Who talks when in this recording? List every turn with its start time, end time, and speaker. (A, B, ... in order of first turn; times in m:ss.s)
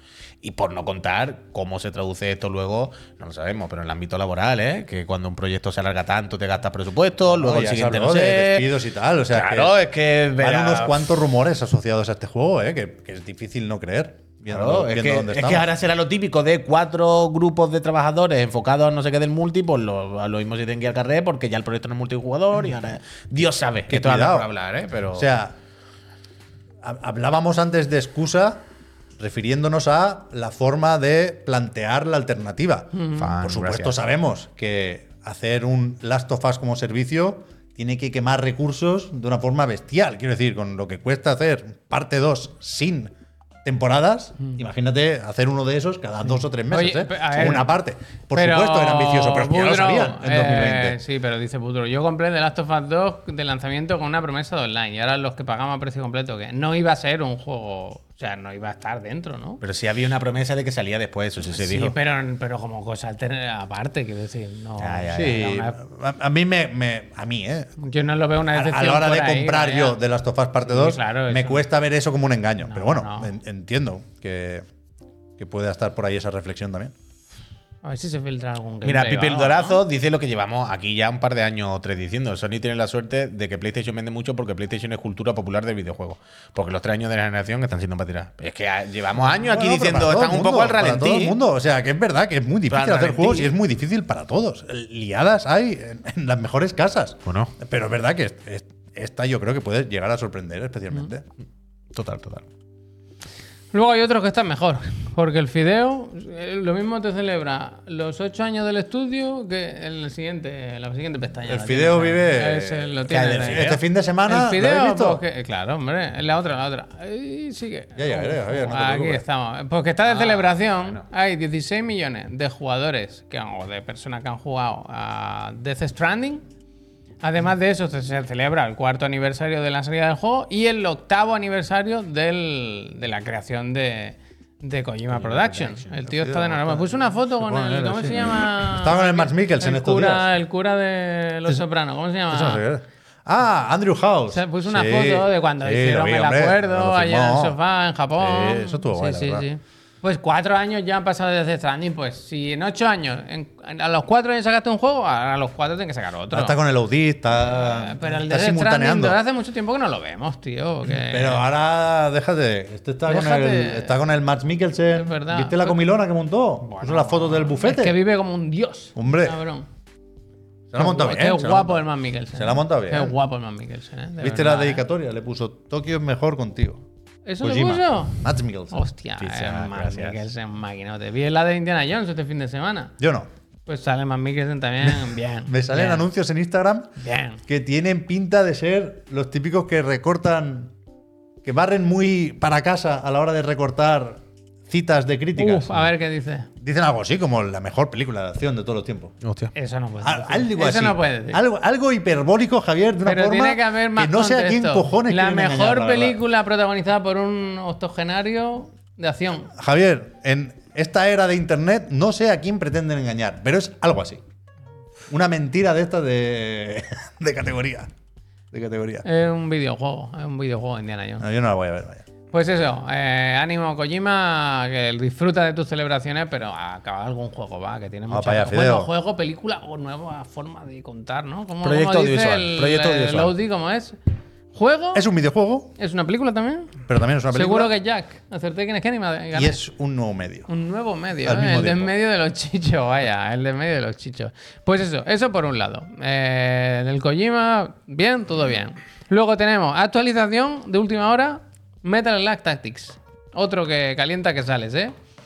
0:00.4-0:08.7 A
0:07.3-0:09.8 B
0:09.3-0:11.1 A
0:10.4-0:15.7 B
0:14.5-0:25.3 A
0:23.9-0:24.5 B
0:25.1-0:25.5 B
0:26.8-0:28.6 B
0:29.2-0:43.1 B
0:33.0-0:33.2 C
0:33.1-0:33.9 A
0:43.6-0:51.0 B
0:46.7-0:47.7 C
0:48.3-0:59.6 C
0:59.6-1:01.9 A
1:01.5-1:05.8 C
1:04.8-1:05.5 A
1:05.1-1:07.7 B
1:07.8-1:10.0 C
1:08.5-1:14.6 B
1:10.6-1:11.6 C
1:12.6-1:13.3 C
1:15.4-1:16.9 B
1:17.8-1:19.8 C
1:18.8-1:31.4 A
1:29.3-1:41.2 B
1:32.7-1:33.5 A
1:37.2-1:37.5 A
1:41.9-1:42.4 A
1:43.7-1:53.7 C
1:51.5-1:55.2 B
1:53.1-1:53.8 A
1:54.2-2:06.4 C
1:58.0-1:59.2 B
2:00.1-2:01.0 A
2:07.2-2:22.6 C
2:15.2-2:15.8 A
2:16.0-2:20.3 B
2:22.3-2:27.6 B
2:24.3-2:36.6 C
2:28.2-2:29.4 B
2:36.3-2:39.2 B
2:37.4-2:41.4 C
2:41.0-2:48.0 B
2:43.1-2:44.0 C
2:44.9-2:45.8 C
2:46.7-2:49.6 C
2:49.0-2:49.4 B
2:50.7-2:53.1 B
2:50.8-2:54.8 C
2:54.2-2:56.8 B
2:57.2-3:02.9 C
2:57.4-2:58.8 B
2:59.2-3:00.2 A
3:03.0-3:03.3 B
3:03.6-3:06.0 C
3:04.8-3:06.9 B
3:07.0-3:07.4 C
3:07.4-3:10.7 B
3:11.4-3:15.8 B
3:15.4-3:16.5 C
3:16.6-3:19.1 B
3:19.2-3:19.5 A
3:19.5-3:21.4 C
3:20.0-3:26.2 B
3:23.0-3:29.5 C
3:29.5-3:34.2 B
3:35.1-3:37.9 B
3:38.5-3:39.0 B
3:39.0-3:41.2 C
3:41.2-3:42.0 B
3:42.3-3:54.0 C
3:48.1-3:48.9 B
3:51.6-3:53.3 A
3:54.5-3:55.0 C
3:54.9-3:55.7 B
3:55.8-3:56.7 C
3:56.9-3:57.7 B
3:57.3-3:59.6 C
3:59.3-4:00.5 B
4:00.5-4:14.9 C
4:01.2-4:01.9 B